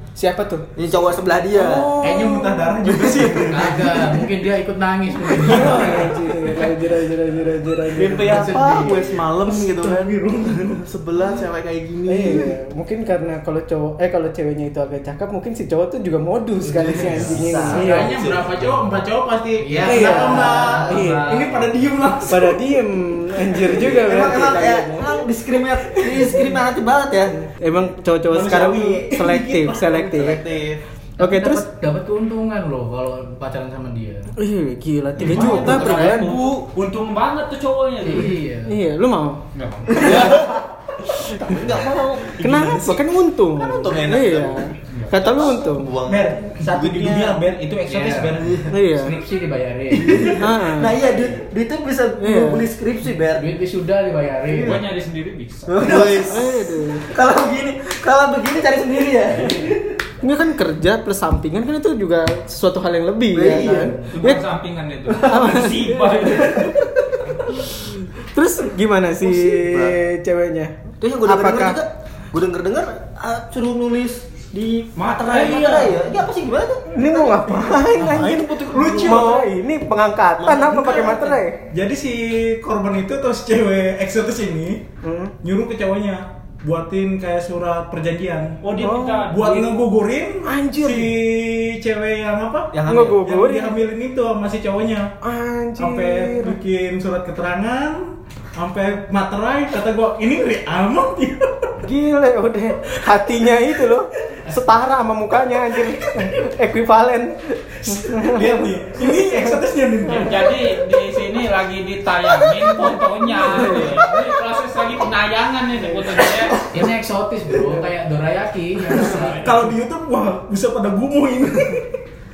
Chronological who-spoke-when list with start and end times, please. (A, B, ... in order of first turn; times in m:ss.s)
0:00.2-0:00.7 A
0:00.8-0:02.0 B
0:01.5-0:03.3 A
0:02.0-0:04.2 C
0:03.0-0:03.3 B
0:03.5-0:06.0 D
0:05.3-0:06.2 C
0:05.4-0:09.0 A
0:07.9-0:12.5 E
0:08.0-0:10.8 C
0:12.1-0:18.1 A
0:16.6-0:18.7 E
0:17.1-0:22.6 C
0:19.6-0:21.8 D
0:19.9-0:21.4 A
0:22.3-0:25.2 A
0:23.8-0:27.4 B
0:27.4-0:30.4 A
0:28.3-0:29.6 C
0:29.5-0:30.8 E
0:31.2-0:34.3 D
0:31.2-0:31.6 A
0:34.4-0:36.4 A
0:35.2-0:38.4 F
0:35.2-0:35.9 C
0:35.2-0:36.0 D
0:38.0-0:38.8 D
0:38.7-0:40.4 A
0:39.5-0:40.3 F
0:40.0-0:40.6 E
0:41.3-0:41.8 A
0:41.3-0:47.4 E
0:42.4-0:45.9 A
0:46.0-0:48.7 C
0:47.8-0:50.3 D
0:48.7-0:49.2 A
0:50.0-0:50.4 E
0:50.1-0:53.5 B
0:50.4-0:51.0 A
0:52.2-0:52.7 A
0:53.1-0:54.8 D
0:54.6-0:55.7 F
0:55.7-0:56.5 B
0:55.8-0:56.6 E
0:55.8-0:57.1 A
0:57.1-0:59.9 B
1:00.2-1:04.4 A
1:03.3-1:04.1 B
1:03.7-1:04.1 D
1:04.1-1:06.8 F
1:05.1-1:11.8 A
1:09.2-1:10.0 E
1:11.0-1:17.7 B
1:15.0-1:16.1 C
1:16.9-1:21.6 A
1:17.9-1:19.4 E
1:18.7-1:19.5 C
1:20.4-1:21.4 E
1:20.9-1:21.1 C
1:21.7-1:24.8 C
1:25.0-1:25.3 A
1:25.4-1:35.1 C
1:28.6-1:29.8 F
1:28.8-1:29.3 A
1:30.4-1:31.1 A
1:32.7-1:33.2 B
1:32.8-1:33.7 A
1:35.2-1:36.6 A
1:35.8-1:41.8 C
1:41.8-1:50.4 A
1:47.9-1:50.5 C
1:50.1-1:56.6 F
1:52.3-1:54.1 A
1:56.7-1:59.6 D
1:59.2-2:01.9 C